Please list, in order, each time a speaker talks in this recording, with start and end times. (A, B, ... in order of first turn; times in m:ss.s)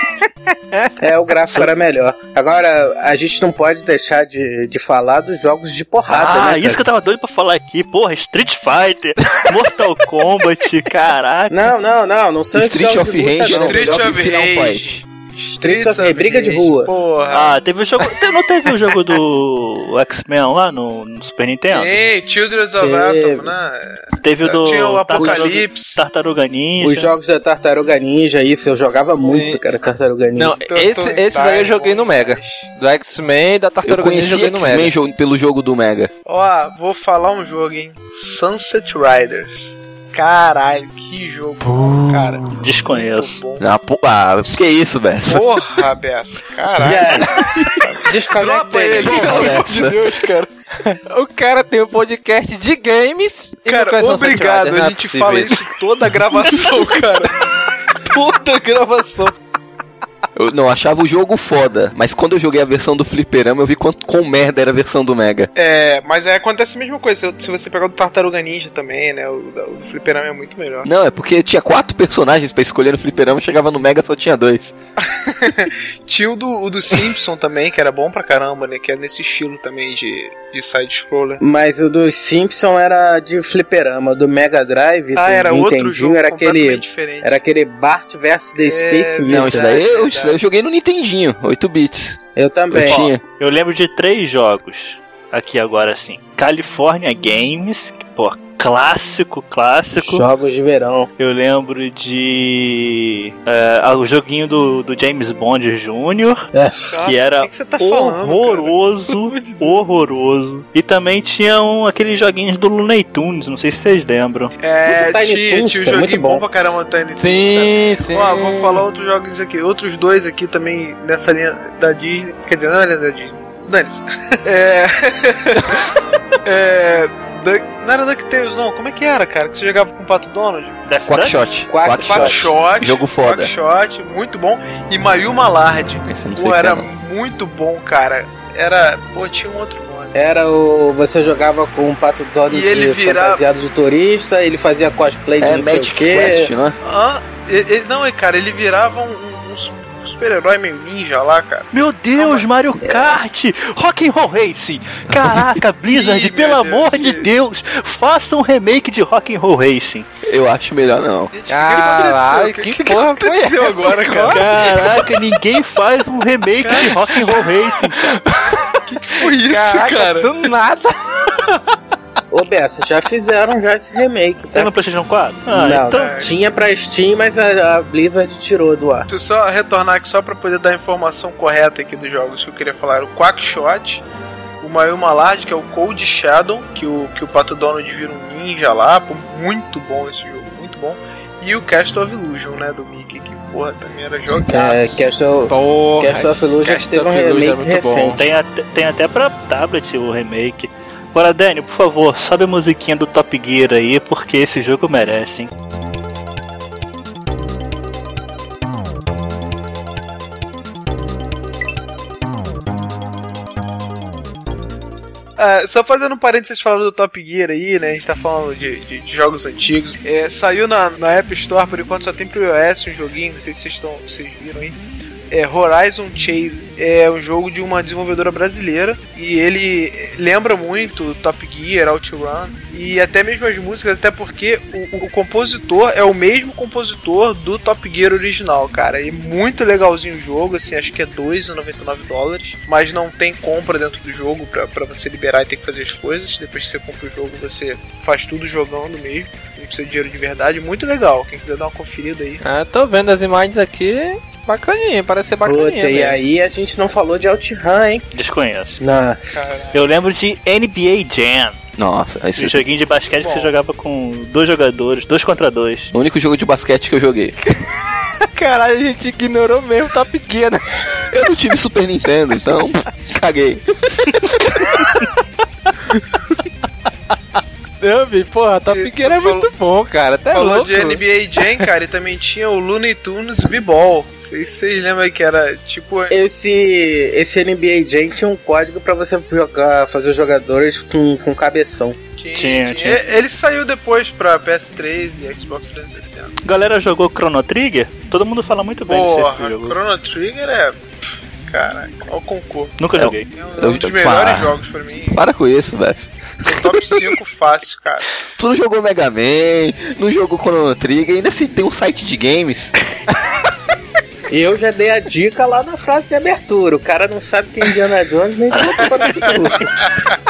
0:01.0-0:06.8 A
0:06.1-0:11.7 B
0:11.5-0:14.1 A
0:12.5-0:15.0 C
0:13.5-0:17.6 D
0:15.6-0:16.9 A
0:17.3-0:22.0 B
0:21.7-0:26.0 D
0:22.8-0:23.5 A
0:24.2-0:27.1 B
0:25.2-0:25.5 A
0:26.8-0:30.6 A
0:29.2-0:29.6 E
0:30.4-0:34.9 E
0:30.6-0:32.7 D
0:33.8-0:36.1 C
0:36.3-0:43.7 D
0:41.6-0:42.4 E
0:42.6-0:43.4 B
0:43.6-0:45.5 C
0:45.2-0:47.3 D
0:46.8-0:47.4 A
0:47.8-0:50.5 D
0:48.0-0:49.6 A
0:49.0-0:50.0 C
0:51.1-0:55.7 E
0:53.7-0:57.4 D
0:58.0-0:59.4 D
1:00.4-1:05.5 C
1:05.6-1:10.9 D
1:10.8-1:14.8 C
1:15.2-1:21.4 D
1:21.4-1:29.9 A
1:25.2-1:27.4 D
1:28.6-1:30.4 D
1:29.3-1:32.2 C
1:32.4-1:33.1 A
1:32.7-1:33.2 C
1:32.8-1:40.3 B
1:39.9-1:41.1 A
1:41.2-1:46.5 B
1:46.6-1:47.0 A
1:46.9-1:49.9 D
1:47.0-1:54.5 B
1:54.6-2:05.6 D
1:54.9-1:56.4 A
1:57.2-1:58.9 E
2:06.4-2:10.9 D
2:10.9-2:11.6 B
2:11.1-2:13.5 C
2:11.7-2:12.5 A
2:12.0-2:20.2 D
2:16.0-2:16.9 C
2:20.2-2:26.5 A
2:22.5-2:23.4 D
2:25.4-2:26.8 C
2:26.8-2:32.5 D
2:31.7-2:40.1 B
2:32.8-2:33.2 A
2:35.9-2:37.3 D
2:40.3-2:41.3 C
2:41.3-2:45.0 D
2:41.5-2:44.5 E
2:44.3-2:48.2 B
2:46.6-2:47.5 D
2:48.9-2:50.3 D
2:49.3-2:51.6 E
2:52.3-2:54.7 A
2:54.5-2:56.2 B
2:55.5-2:59.1 A
2:55.9-2:56.4 D
2:59.1-3:04.0 D
3:04.6-3:15.1 D
3:14.5-3:18.3 A
3:15.5-3:18.3 E
3:18.2-3:25.5 B
3:35.4-3:44.8 D
3:45.3-4:12.4 D
4:12.4-4:16.2 E
4:15.4-4:18.0 A
4:18.1-4:18.8 B
4:18.8-4:19.4 A
4:19.3-4:19.9 D
4:19.7-4:21.6 B
4:21.8-4:22.6 C
4:22.4-4:25.9 B
4:23.1-4:23.5 D
4:25.9-4:27.4 C
4:28.4-4:30.6 E
4:31.1-4:33.6 C
4:37.8-4:41.6 E
4:38.7-4:39.5 D
4:40.3-4:46.2 D
4:46.1-4:52.0 A
4:52.2-4:56.4 D
4:52.4-4:53.1 B
4:56.4-4:59.8 B
4:58.9-5:00.9 D
5:01.4-5:05.2 D
5:02.8-5:03.3 B
5:03.0-5:04.5 C
5:05.1-5:06.6 C
5:06.4-5:08.1 D
5:08.4-5:12.7 C
5:14.3-5:19.7 A
5:19.0-5:19.5 D